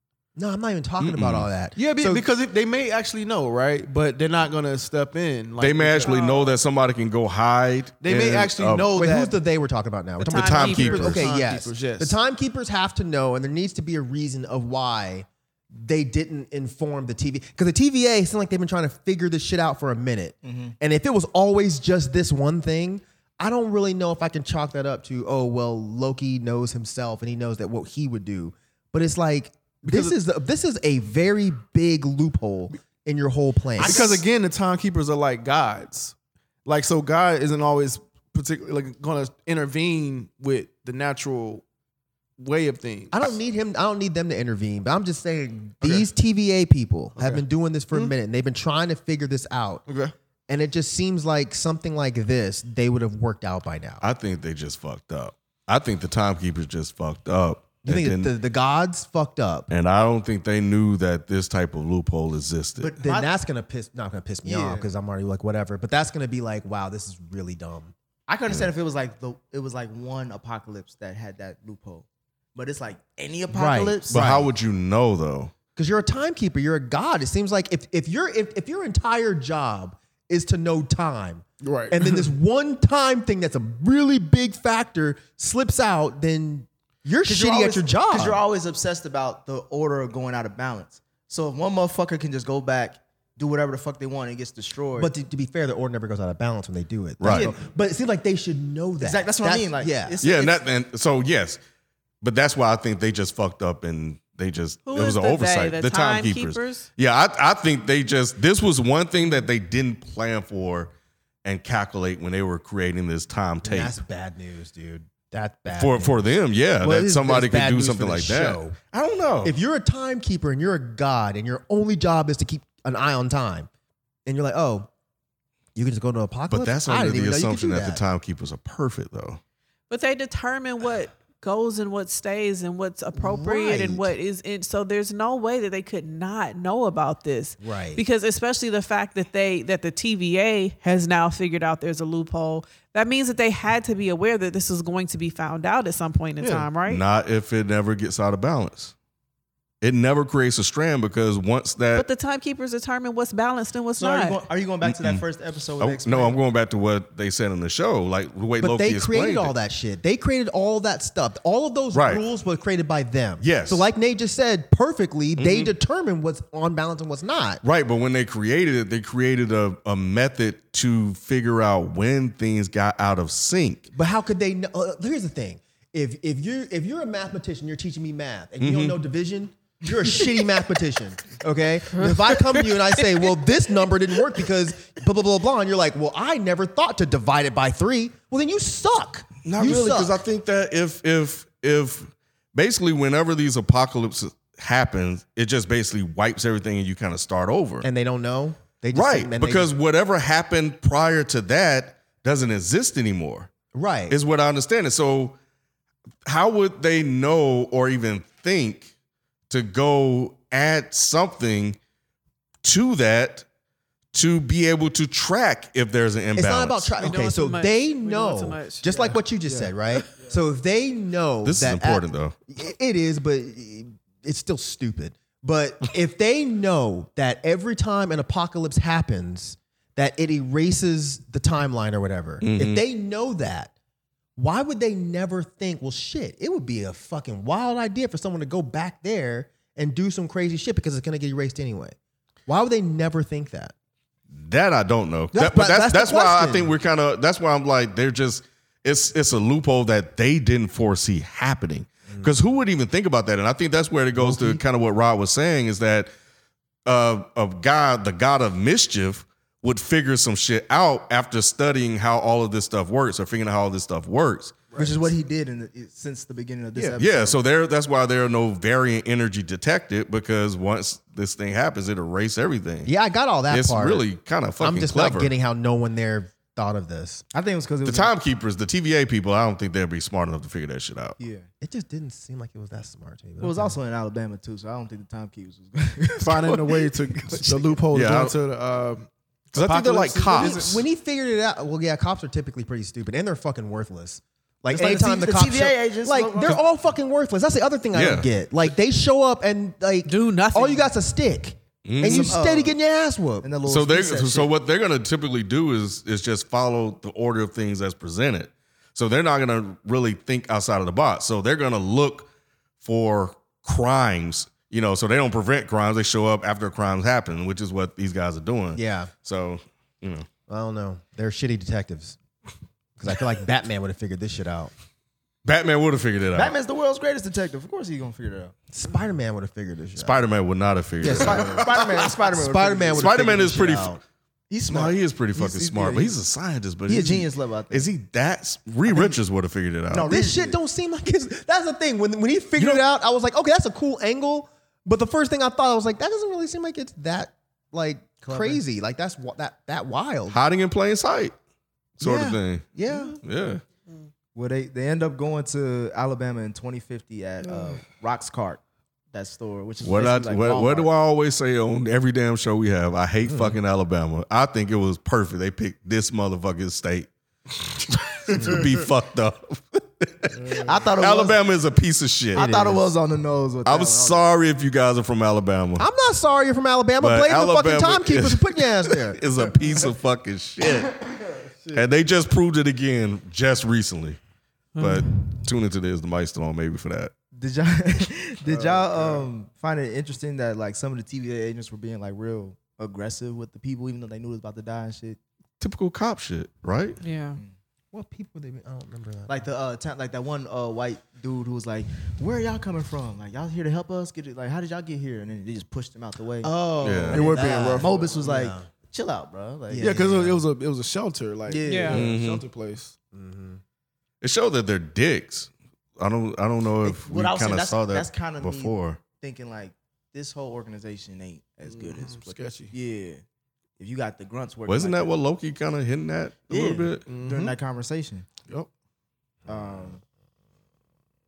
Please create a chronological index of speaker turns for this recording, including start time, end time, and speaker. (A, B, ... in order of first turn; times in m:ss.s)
0:00.4-0:02.2 A
0:01.0-0:01.5 B
0:01.8-0:06.2 C
0:05.6-0:08.9 B
0:06.0-0:06.5 D
0:08.0-0:09.4 C
0:08.9-0:34.2 A
0:10.2-0:11.3 D
0:10.3-0:11.2 B
0:11.0-0:12.2 C
0:20.4-0:20.7 E
0:29.8-0:30.2 C
0:33.8-0:36.1 C
0:36.6-0:41.6 C
0:42.4-0:43.4 C
0:43.1-0:49.8 A
0:45.8-0:46.1 C
0:47.1-0:48.1 C
0:49.9-0:50.1 C
0:50.5-0:54.0 A
0:54.0-0:58.3 B
0:57.8-0:59.7 A
0:59.7-1:02.9 B
1:02.8-1:03.3 E
1:03.0-1:07.9 A
1:04.4-1:04.9 E
1:08.3-1:14.2 E
1:13.5-1:14.5 A
1:14.1-1:15.5 B
1:15.8-1:28.4 A
1:21.6-1:22.3 C
1:27.2-1:35.1 E
1:35.0-1:40.2 A
1:37.2-1:37.5 B
1:37.3-1:37.6 E
1:39.0-1:40.6 E
1:40.2-1:41.6 B
1:42.2-1:50.9 B
1:44.8-1:46.9 D
1:51.4-1:54.0 B
1:53.6-1:58.8 A
1:55.7-1:59.6 B
1:59.4-2:03.7 A
2:04.2-2:04.9 A
2:05.7-2:08.0 A
2:06.5-2:09.4 B
2:09.9-2:27.0 D
2:13.1-2:14.1 A
2:17.6-2:18.0 A
2:26.4-2:26.7 C
2:26.8-2:28.9 B
2:29.8-2:32.0 B
2:31.9-2:34.4 D
2:34.0-2:36.4 E
2:34.8-2:35.2 B
2:35.8-2:39.5 B
2:38.6-2:47.6 A
2:41.9-2:42.2 B
2:43.4-2:43.9 B
2:45.4-2:45.7 B
2:47.6-2:53.9 B
2:53.9-3:10.2 A
2:58.6-2:59.0 B
3:02.0-3:03.3 D
3:09.4-3:17.9 B
3:17.8-3:19.7 A
3:18.9-3:23.5 B
3:23.7-3:24.2 A
3:24.1-3:25.4 B
3:26.2-3:28.9 B
3:29.5-3:31.8 B
3:32.6-3:33.4 B
3:34.1-3:36.9 B
3:36.4-3:53.7 A
3:37.0-3:39.1 D
3:39.4-3:40.3 C
3:41.4-3:42.3 B
3:52.4-3:52.8 B
3:54.4-4:01.9 A
4:02.5-4:03.7 A
4:04.3-4:16.1 B
4:05.3-4:06.7 A
4:16.8-4:24.6 B
4:24.7-4:25.1 C
4:24.7-4:27.4 E
4:27.0-4:32.9 B
4:32.8-4:34.0 A
4:33.5-4:35.3 B
4:34.6-4:37.2 A
4:37.3-4:38.1 E
4:37.8-4:41.2 B
4:41.2-4:41.5 E
4:41.6-4:43.8 A
4:43.4-4:47.7 E
4:46.2-4:50.8 C
4:47.9-4:48.3 B
4:49.5-4:50.7 B
4:50.3-5:03.5 A
4:54.7-4:56.6 E
4:57.9-4:58.3 B
5:00.0-5:00.9 D
5:01.8-5:02.4 B
5:02.0-5:02.7 E
5:03.4-5:04.5 E
5:03.6-5:12.3 B
5:12.8-5:20.3 B
5:18.7-5:19.1 A
5:20.5-5:22.2 A
5:23.0-5:24.7 A
5:25.4-5:26.5 B
5:26.3-5:28.5 E
5:28.7-5:30.2 A
5:30.0-5:31.5 B
5:31.0-5:34.0 A
5:31.0-5:33.4 E
5:32.9-5:34.0 B
5:34.5-5:35.5 E
5:34.7-5:40.1 B
5:35.5-5:36.1 C
5:36.9-5:37.9 E
5:39.9-5:40.6 E
5:40.0-5:50.4 A
5:48.3-5:48.6 E
5:50.3-5:51.4 B
5:52.0-5:52.6 B
5:52.0-5:53.2 A
5:53.2-5:53.6 B
5:54.3-5:58.6 E
5:59.1-6:00.9 E
5:59.8-6:07.1 B
6:03.2-6:03.6 A
6:07.8-6:12.6 B
6:10.5-6:11.4 E
6:12.3-6:14.2 E
6:12.4-6:12.8 A
6:13.6-6:15.9 B
6:15.8-6:19.2 A
6:17.0-6:21.0 B
6:21.7-6:24.2 B
6:24.8-6:25.1 D
6:24.8-6:27.1 B
6:27.3-6:35.2 E
6:28.4-6:29.2 C
6:35.6-6:37.0 B
6:37.0-6:37.4 D
6:37.9-6:39.4 A
6:39.3-6:50.2 E
6:46.4-6:48.7 A
6:46.8-6:47.2 B
6:47.1-6:48.1 C
6:49.7-6:50.4 A
6:49.8-6:52.9 C
6:51.5-6:52.1 E
6:51.6-6:52.0 D
6:51.9-6:52.4 B
6:53.1-6:53.6 A
6:54.2-6:59.0 B
6:56.8-7:03.2 E
7:01.6-7:02.7 C
7:03.8-7:05.1 E
7:04.7-7:07.0 B
7:06.5-7:08.3 E
7:07.1-7:07.5 C
7:09.4-7:10.0 E